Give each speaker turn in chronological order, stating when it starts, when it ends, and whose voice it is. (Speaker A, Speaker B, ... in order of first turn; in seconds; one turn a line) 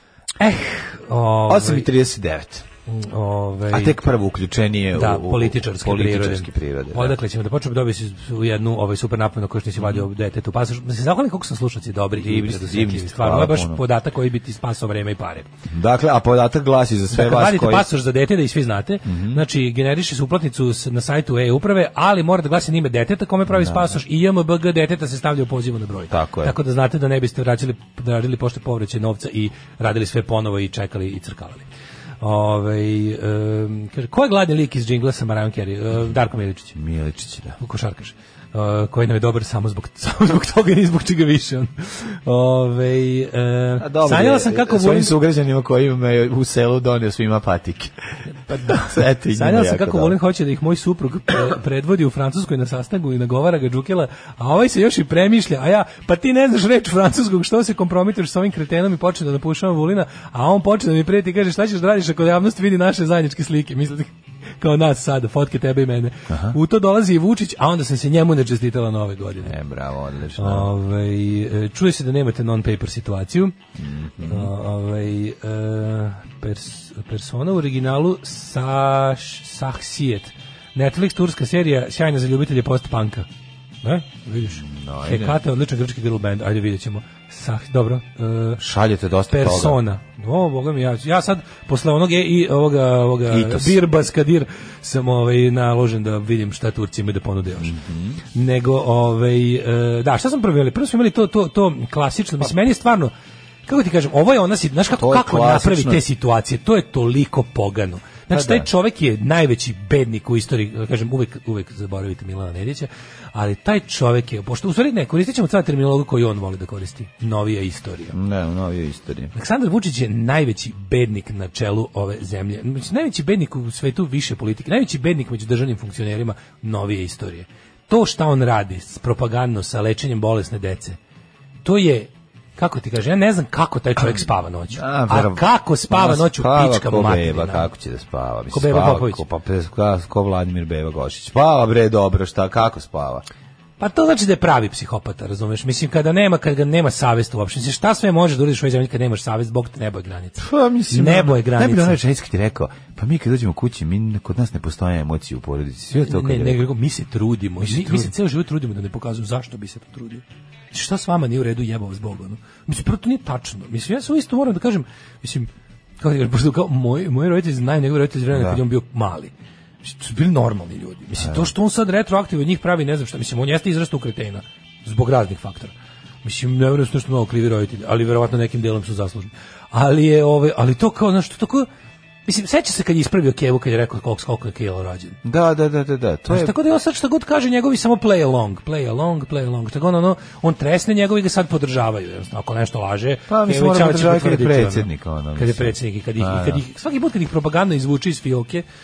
Speaker A: 0.4-1.9
Speaker B: 1.5-2.6
Speaker A: 2.9-4.0
Speaker B: 3.7-7.2
Speaker A: 4.9-15.5
Speaker B: 9.8-10.1
Speaker B: 12.2-13.8
Speaker B: 15.7-17.9
Speaker A: 17.1-31.6
Speaker B: 19.0-19.4
Speaker B: 23.5-23.9
Speaker B: 26.1-26.6
Speaker A: 32.2-36.8
Speaker B: 36.7-37.6
Speaker A: 37.6-45.1
Speaker B: 43.8-48.0
Speaker A: 48.5-69.5
Speaker B: 48.6-50.1
Speaker B: 66.3-66.6
Speaker B: 69.4-70.7
Speaker A: 70.4-73.5
Speaker B: 73.8-74.5
Speaker A: 74.2-83.3
Speaker A: 83.8-88.6
Speaker B: 84.5-85.4
Speaker B: 88.6-89.8
Speaker A: 89.3-97.7
Speaker B: 93.3-93.8
Speaker B: 97.6-98.2
Speaker A: 98.3-103.1
Speaker A: 103.7-118.2
Speaker B: 104.9-106.0
Speaker B: 108.3-108.7
Speaker B: 118.1-119.3
Speaker A: 119.3-131.0
Speaker A: 131.6-137.7
Speaker B: 134.7-143.2
Speaker A: 138.5-139.2
Speaker A: 143.8-152.0
Speaker B: 150.4-156.6
Speaker A: 155.9-165.5
Speaker B: 157.6-158.1
Speaker A: 166.0-169.3
Speaker B: 168.3-168.6
Speaker A: 169.8-175.7
Speaker B: 171.2-171.5
Speaker A: 176.2-181.7
Speaker A: 182.2-185.2
Speaker B: 185.2-186.5
Speaker A: 186.3-198.6
Speaker B: 193.3-196.6